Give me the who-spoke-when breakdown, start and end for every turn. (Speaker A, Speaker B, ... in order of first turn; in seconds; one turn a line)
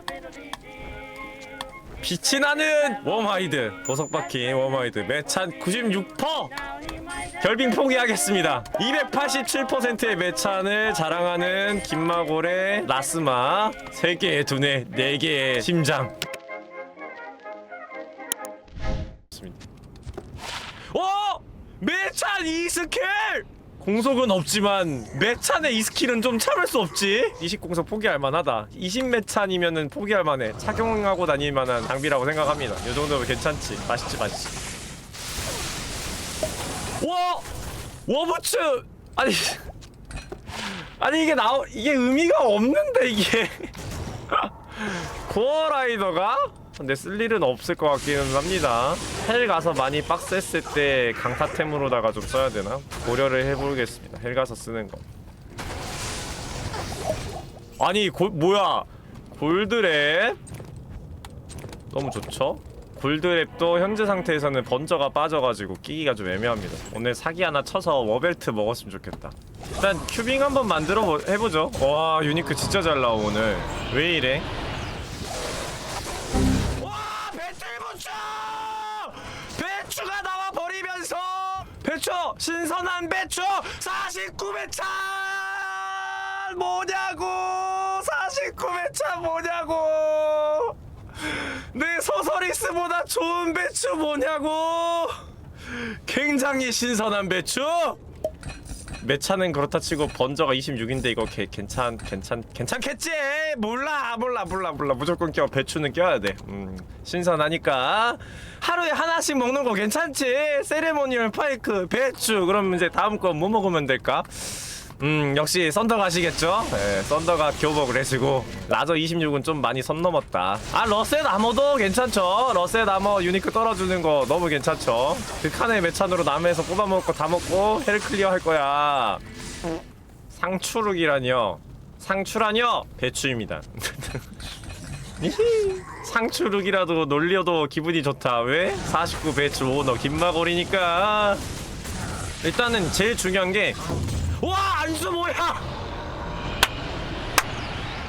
Speaker A: 2.0-6.5
Speaker A: 7.4-16.2
Speaker A: 19.3-19.6
Speaker A: 20.9-34.6
Speaker A: 37.0-37.5
Speaker A: 38.1-39.7
Speaker A: 40.6-43.7
Speaker A: 44.3-55.0
Speaker A: 57.8-60.4
Speaker A: 61.9-74.5
Speaker A: 76.8-98.0
Speaker A: 99.0-129.2
Speaker A: 130.3-134.3
Speaker A: 135.2-141.4
Speaker A: 142.4-143.8
Speaker A: 144.4-145.7